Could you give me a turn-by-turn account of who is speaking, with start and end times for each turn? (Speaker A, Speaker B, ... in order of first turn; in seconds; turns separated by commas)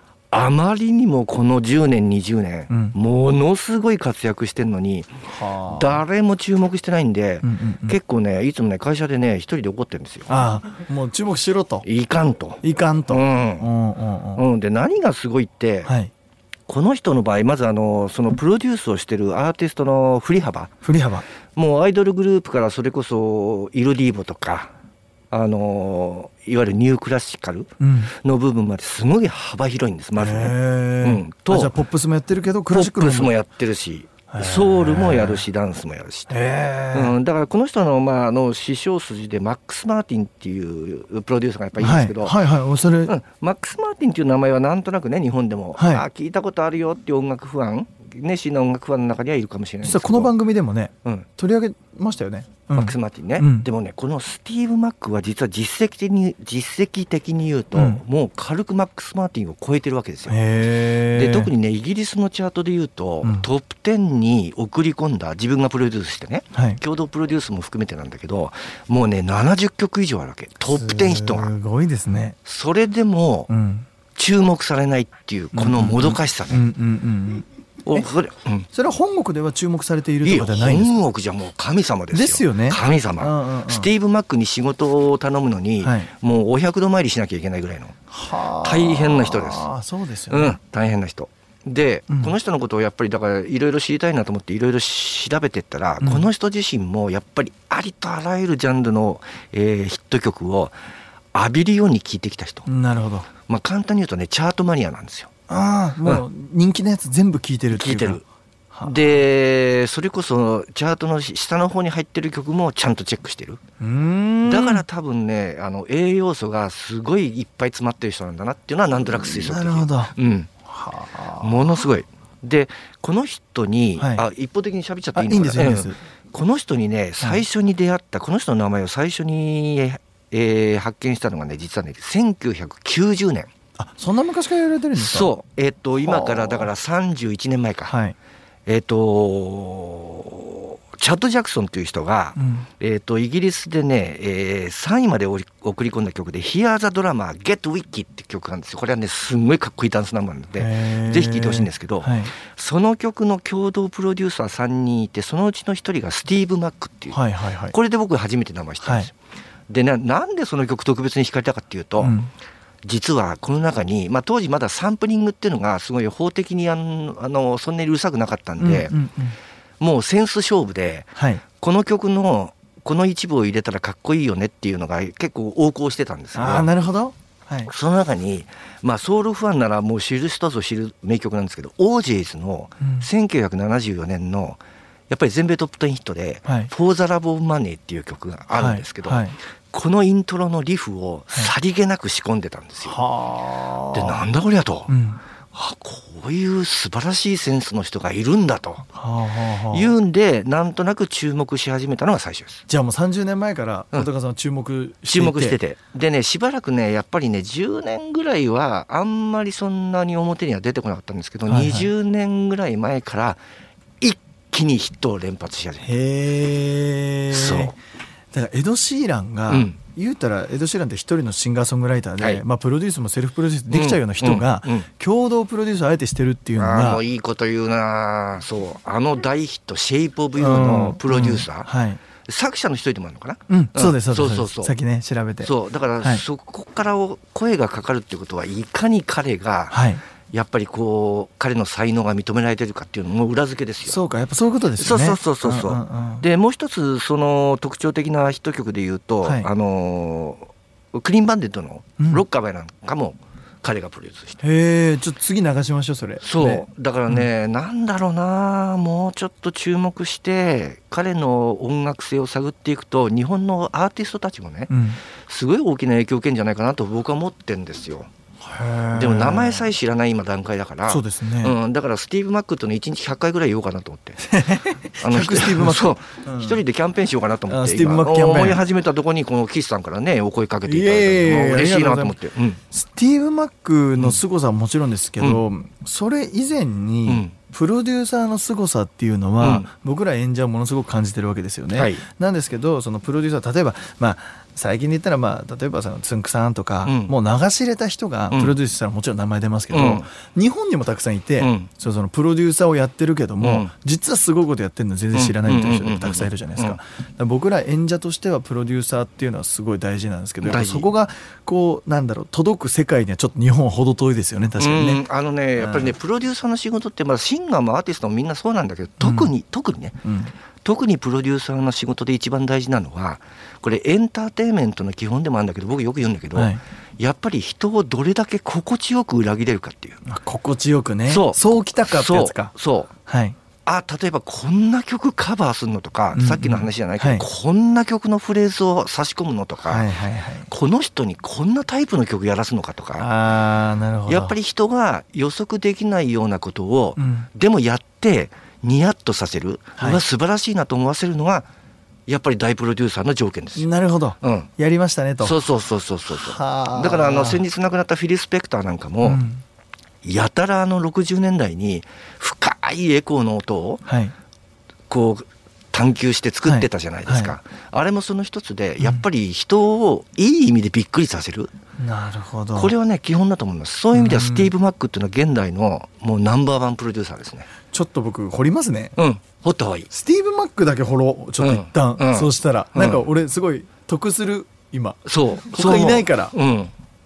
Speaker A: 0.3-5.1, Speaker B: 2.7-3.0, Speaker B: 5.3-6.0, Speaker A: 5.7-10.4, Speaker B: 7.4-8.0, Speaker B: 10.3-11.8, Speaker A: 11.8-13.7, Speaker B: 12.6-14.4, Speaker A: 14.3-15.9, Speaker B: 15.8-16.1, Speaker A: 16.7-20.8, Speaker B: 20.8-21.2, Speaker A: 21.5-24.7, Speaker A: 25.3-31.7, Speaker B: 27.8-28.1, Speaker B: 30.1-33.3, Speaker A: 32.7-36.4, Speaker B: 34.3-35.4, Speaker B: 36.3-37.1, Speaker A: 36.9-42.4, Speaker B: 41.8-43.1, Speaker A: 43.0-50.3, Speaker B: 45.8-46.0, Speaker B: 49.8-53.7, Speaker A: 52.7-60.4, Speaker B: 57.7-58.0, Speaker B: 60.3-61.5, Speaker A: 61.1-71.5, Speaker B: 63.2-63.5, Speaker B: 66.5-66.8, Speaker B: 70.6-72.3, Speaker A: 72.4-73.5, Speaker B: 73.5-73.8, Speaker A: 74.1-76.6, Speaker B: 75.5-78.1, Speaker A: 77.8-78.7, Speaker B: 78.7-81.0, Speaker A: 80.2-88.0, Speaker B: 82.1-83.9, Speaker B: 85.8-86.1, Speaker B: 88.1-90.6, Speaker A: 88.6-89.7, Speaker A: 90.3-100.8, Speaker B: 92.1-92.3, Speaker B: 96.0-96.3, Speaker A: 101.3-102.7, Speaker B: 102.6-103.3, Speaker A: 103.4-105.3, Speaker B: 105.5-109.1, Speaker A: 107.7-108.2, Speaker A: 108.8-113.6, Speaker B: 113.8-114.8, Speaker A: 114.4-120.5, Speaker B: 119.0-120.1, Speaker B: 120.7-121.8, Speaker A: 121.4-133.5, Speaker B: 124.0-124.2, Speaker B: 125.1-126.0, Speaker B: 133.8-135.3, Speaker A: 134.9-137.9, Speaker B: 136.0-136.7, Speaker B: 137.9-138.2, Speaker A: 138.7-157.2, Speaker B: 142.3-142.7, Speaker B: 150.5-152.3, Speaker B: 157.1-157.7, Speaker A: 157.7-159.1, Speaker B: 158.8-159.1, Speaker A: 159.7-162.2, Speaker B: 162.0-162.3, Speaker A: 162.8-168.9, Speaker B: 168.6-169.3, Speaker A: 169.8-176.7, Speaker B: 171.2-171.4, Speaker B: 176.3-177.7, Speaker A: 177.6-193.0, Speaker B: 182.8-183.1, Speaker B: 186.4-186.7, Speaker B: 188.5-189.4, Speaker B: 192.8-194.2, Speaker A: 193.9-194.9, Speaker B: 194.9-195.2, Speaker A: 195.5-198.9, Speaker B: 198.9-199.9, Speaker A: 199.7-202.6, Speaker B: 202.7-205.6, Speaker A: 205.1-213.4, Speaker B: 211.5-211.9, Speaker A: 214.0-215.9, Speaker B: 215.8-217.8, Speaker A: 217.3-217.7, Speaker B: 218.3-227.0, Speaker A: 219.5-219.8, Speaker A: 222.2-222.4, Speaker A: 223.7-224.9, Speaker A: 226.6-231.7, Speaker B: 230.4-232.0, Speaker A: 232.2-234.7, Speaker B: 233.5-236.2, Speaker A: 235.4-244.0, Speaker B: 239.7-240.0, Speaker B: 243.8-246.2, Speaker A: 244.8-254.4, Speaker B: 252.0-252.2, Speaker B: 254.4-257.3, Speaker A: 256.2-264.7, Speaker B: 264.7-265.0, Speaker A: 265.2-268.1, Speaker B: 268.4-269.7, Speaker A: 268.9-274.3, Speaker B: 270.9-271.5, Speaker B: 274.2-276.6, Speaker A: 275.0-282.6, Speaker B: 277.5-278.6, Speaker B: 280.6-282.2, Speaker B: 282.7-315.0, Speaker A: 287.1-287.4, Speaker A: 289.4-289.7, Speaker A: 291.7-292.0, Speaker A: 296.8-297.1, Speaker A: 298.3-298.6, Speaker A: 299.7-300.1, Speaker A: 301.4-301.7, Speaker A: 303.4-303.7, Speaker A: 305.1-306.8, Speaker A: 310.4-310.9, Speaker A: 314.6-320.0, Speaker B: 315.6-316.0, Speaker B: 319.0-319.3, Speaker B: 320.0-320.3, Speaker A: 320.6-330.0, Speaker B: 326.3-326.6, Speaker B: 330.0-332.5, Speaker A: 331.1-332.9, Speaker B: 333.1-333.4, Speaker A: 333.6-339.9, Speaker B: 336.1-337.3, Speaker B: 339.6-340.5, Speaker A: 340.5-343.1, Speaker B: 343.0-344.4, Speaker A: 344.1-351.5, Speaker B: 347.0-347.3, Speaker B: 349.8-350.0, Speaker A: 352.1-354.5, Speaker B: 353.6-355.4, Speaker A: 355.2-359.2, Speaker B: 356.1-357.4, Speaker B: 359.0-359.4, Speaker A: 360.0-363.9, Speaker B: 363.8-364.1, Speaker A: 364.9-371.5, Speaker B: 366.4-367.4, Speaker B: 368.8-369.0, Speaker B: 371.8-372.7, Speaker A: 372.5-377.5, Speaker B: 373.9-374.5, Speaker B: 377.7-378.9, Speaker A: 378.9-379.9, Speaker B: 379.9-386.3, Speaker A: 381.4-383.1, Speaker A: 385.1-386.7